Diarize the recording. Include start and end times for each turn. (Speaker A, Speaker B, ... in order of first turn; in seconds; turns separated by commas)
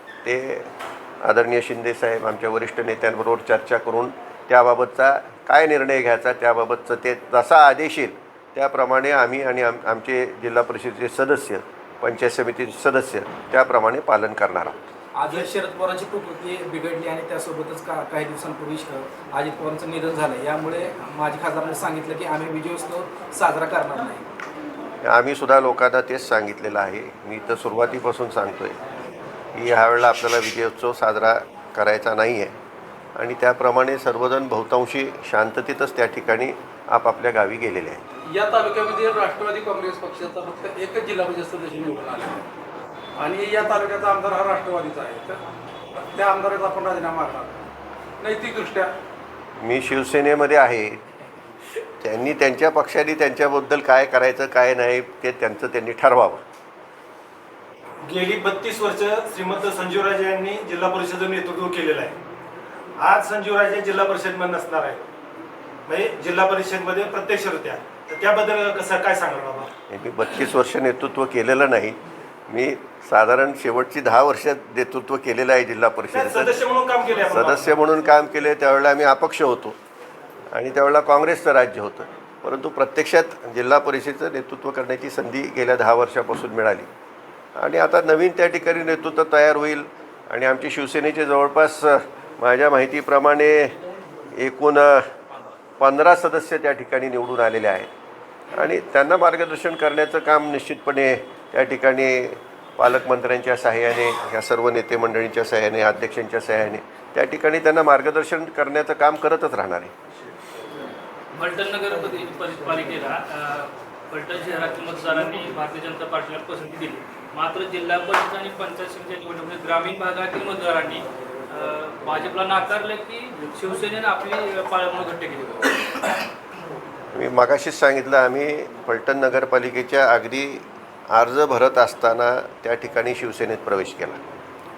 Speaker A: 0.2-14.8, Speaker B: 15.1-24.2, Speaker A: 25.0-28.8, Speaker A: 29.5-32.5, Speaker A: 33.1-38.0, Speaker C: 38.3-42.4, Speaker C: 43.2-45.4, Speaker C: 45.9-47.6, Speaker C: 48.2-48.9, Speaker A: 49.6-51.0, Speaker A: 52.0-56.4, Speaker D: 58.0-62.1, Speaker D: 63.0-65.0, Speaker D: 65.9-69.7, Speaker A: 69.9-72.0, Speaker A: 72.5-76.6, Speaker D: 76.1-77.8, Speaker A: 77.3-79.8, Speaker A: 80.5-86.9, Speaker A: 87.6-93.8, Speaker A: 94.3-95.1, Speaker A: 95.8-97.9, Speaker A: 98.5-109.9, Speaker E: 111.3-126.0, Speaker A: 127.1-134.2